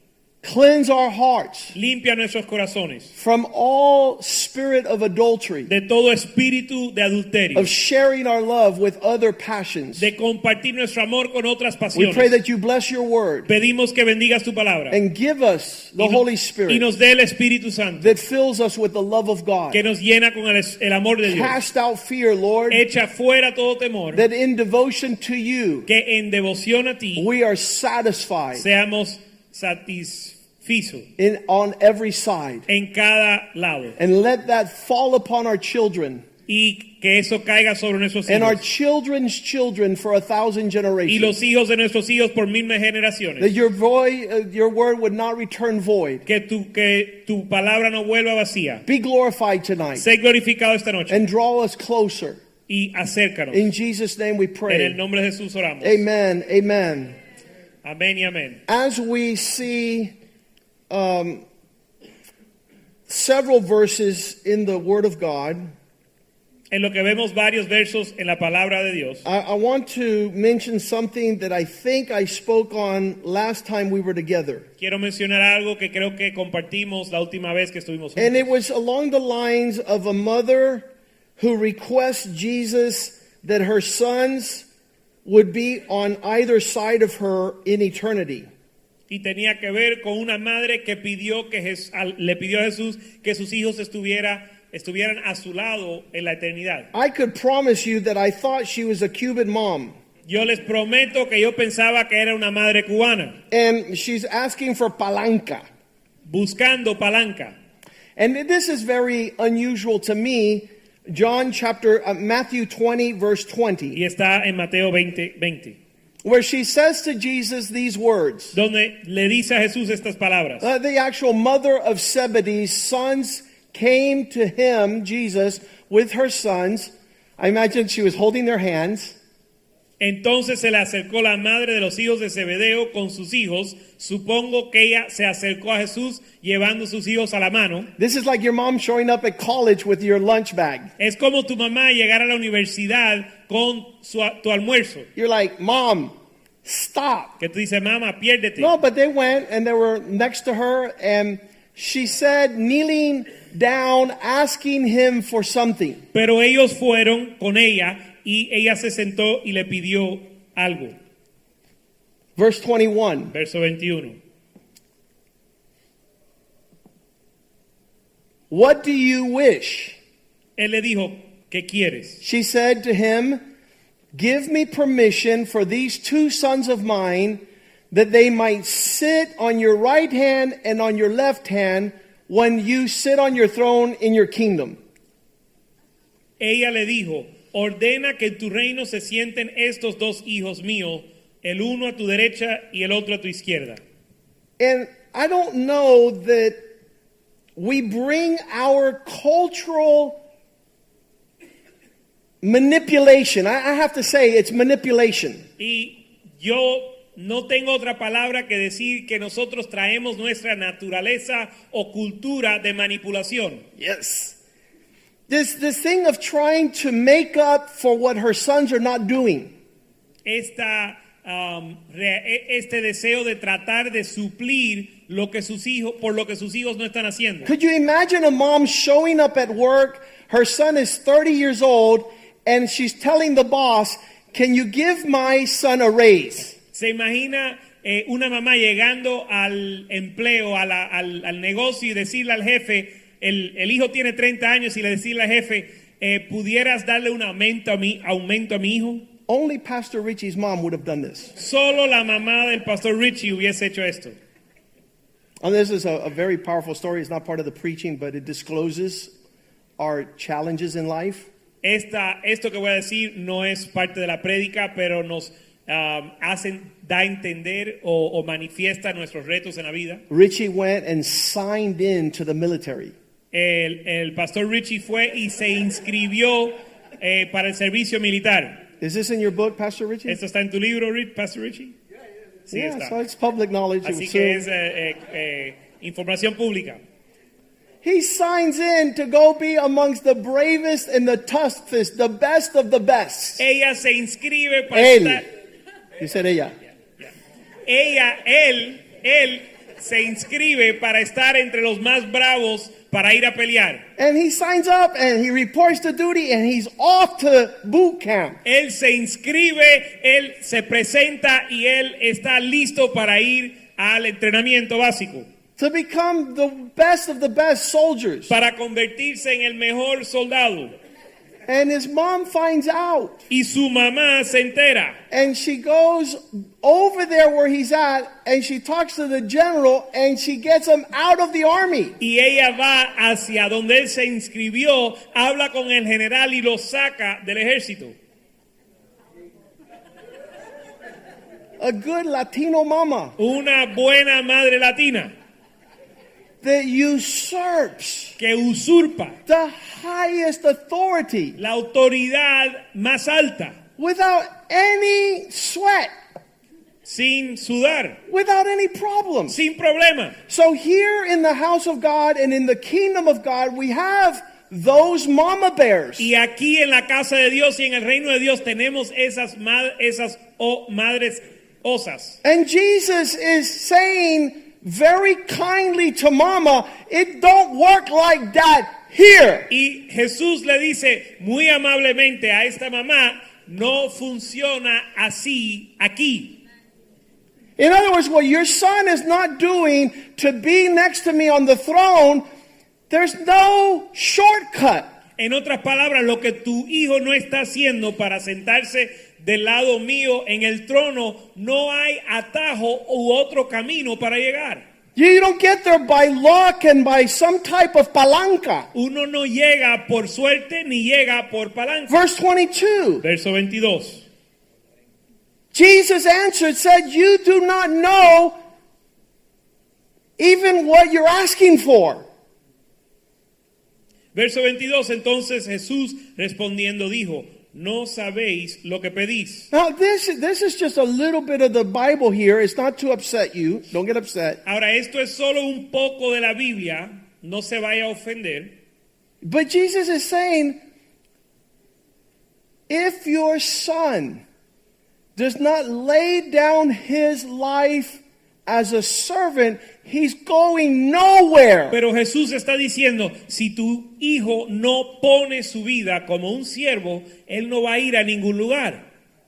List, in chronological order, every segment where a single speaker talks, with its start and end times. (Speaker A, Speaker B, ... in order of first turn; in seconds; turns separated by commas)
Speaker A: 0.4-1.7, Speaker B: 1.7-3.1, Speaker A: 3.2-5.7, Speaker B: 5.7-7.7, Speaker A: 7.5-10.1, Speaker B: 10.0-12.4, Speaker A: 11.9-13.5, Speaker B: 13.5-15.0, Speaker A: 14.9-16.8, Speaker B: 16.0-18.2, Speaker A: 18.0-19.8, Speaker B: 19.7-21.6, Speaker A: 21.2-22.8, Speaker B: 22.7-24.2, Speaker A: 24.1-25.9, Speaker B: 25.9-27.3, Speaker A: 27.2-28.6, Speaker B: 28.6-31.1, Speaker A: 31.2-32.7, Speaker B: 32.7-34.0, Speaker A: 34.0-36.2, Speaker B: 36.5-38.6, Speaker A: 38.3-41.4, Speaker B: 41.1-43.5, Speaker A: 43.4-46.2, Speaker B: 46.2-48.9, Speaker A: 48.9-50.0, Speaker B: 50.0-51.3, Speaker A: 51.1-52.4, Speaker B: 52.7-53.7, Speaker A: 53.5-55.0, Speaker B: 54.7-56.0, Speaker A: 55.8-57.2, Speaker B: 57.8-58.6, Speaker A: 58.7-60.1, Speaker A: 60.9-61.4, Speaker A: 63.1-65.7, Speaker B: 66.7-69.3, Speaker A: 69.2-74.7, Speaker B: 74.8-78.5, Speaker A: 78.2-80.9, Speaker A: 81.4-84.7, Speaker A: 85.2-88.5, Speaker B: 89.1-96.9, Speaker A: 96.9-99.9, Speaker B: 100.3-103.4, Speaker A: 103.5-105.7, Speaker B: 106.3-107.5, Speaker A: 108.2-114.0, Speaker B: 113.9-115.8, Speaker A: 116.2-118.5, Speaker B: 118.5-120.7, Speaker A: 120.6-129.2, Speaker B: 130.0-137.9, Speaker A: 138.0-140.9, Speaker B: 141.0-145.1, Speaker A: 145.2-146.1, Speaker A: 146.6-147.4, Speaker B: 147.4-148.7, Speaker A: 148.6-156.0, Speaker B: 156.1-161.0, Speaker A: 162.4-163.3, Speaker B: 163.3-164.2, Speaker A: 168.5-170.0, Speaker B: 170.6-172.2, Speaker A: 172.2-173.4, Speaker A: 174.1-184.8, Speaker B: 186.4-193.8, Speaker A: 194.6-196.6, Speaker A: 197.6-200.2, Speaker A: 202.4-205.4, Speaker B: 205.6-213.7, Speaker A: 213.8-214.4, Speaker A: 215.3-219.5, Speaker B: 220.2-227.5, Speaker A: 227.4-236.6, Speaker B: 236.7-249.1, Speaker A: 249.3-251.3, Speaker B: 251.4-254.2, Speaker A: 255.4-259.1, Speaker A: 259.8-261.3, Speaker B: 261.6-270.0, Speaker A: 270.1-272.9, Speaker B: 273.3-278.6, Speaker A: 278.8-280.2, Speaker B: 280.1-281.8, Speaker B: 282.5-282.9, Speaker A: 282.5-284.5, Speaker B: 283.8-286.8, Speaker A: 287.8-293.4, Speaker B: 293.4-295.3, Speaker A: 294.7-295.3, Speaker A: 296.0-296.5, Speaker B: 297.7-303.8, Speaker A: 304.0-308.4, Speaker B: 308.4-315.3, Speaker A: 315.6-318.3, Speaker B: 318.3-320.7, Speaker A: 321.5-323.3, Speaker B: 323.3-325.0, Speaker A: 325.1-332.0, Speaker B: 332.0-337.9, Speaker A: 341.6-343.2, Speaker B: 343.2-345.1, Speaker A: 346.4-348.2, Speaker B: 348.2-349.2, Speaker A: 349.3-351.4, Speaker B: 351.4-353.6, Speaker A: 353.8-355.9, Speaker B: 356.9-358.0, Speaker A: 358.1-359.4, Speaker B: 359.3-360.2, Speaker A: 360.3-366.1, Speaker B: 366.0-372.2, Speaker A: 372.2-379.5, Speaker B: 379.5-386.4, Speaker A: 387.6-392.2, Speaker A: 392.9-394.9, Speaker B: 395.2-404.6, Speaker A: 405.0-408.7, Speaker B: 408.7-412.0, Speaker A: 411.9-413.0, Speaker B: 413.0-414.1, Speaker A: 415.5-418.4, Speaker A: 420.2-422.1, Speaker B: 424.1-429.5, Speaker A: 429.5-434.4, Speaker B: 434.4-438.5, Speaker A: 439.2-440.6, Speaker A: 442.7-444.2, Speaker A: 445.2-451.8, Speaker B: 451.7-458.8